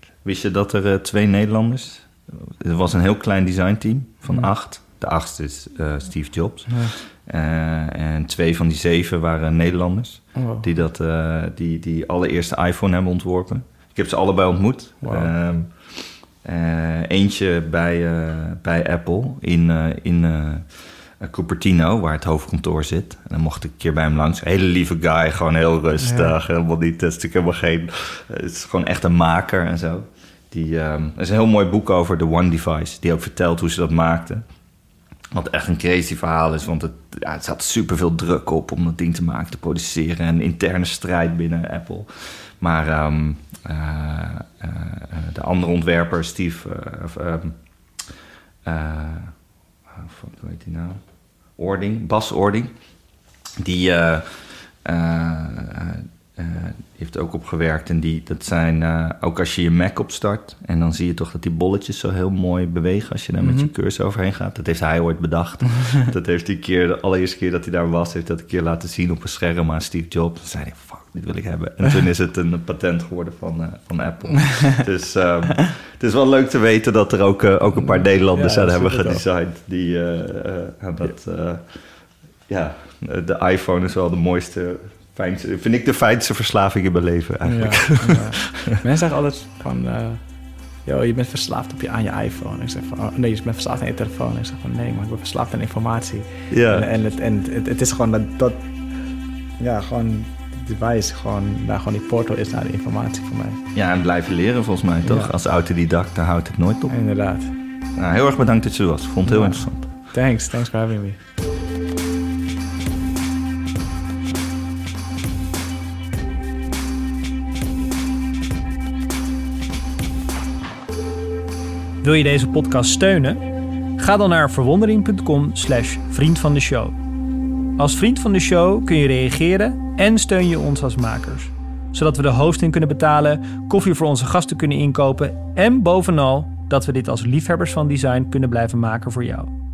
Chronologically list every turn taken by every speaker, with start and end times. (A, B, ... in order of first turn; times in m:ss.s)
0:00.2-0:34.4 A
0:06.7-0:06.9 B
0:10.3-0:10.7 B
0:15.0-0:15.3 B
0:26.0-0:26.3 B
0:35.3-0:49.4 A
0:49.9-0:51.0 A
0:51.5-0:52.8 A
0:53.6-1:28.7 A
1:03.4-1:03.7 B
1:17.8-1:19.2 B
1:27.4-1:30.2 B
1:30.8-1:38.6 B
1:36.5-1:36.9 A
1:39.6-1:43.6 B
1:43.7-1:46.9 A
1:45.0-1:45.3 B
1:46.9-1:47.5 B
1:48.0-1:49.8 A
1:49.2-1:51.2 B
2:02.0-2:03.4 C
2:04.0-2:07.0 C
2:07.8-2:19.5 C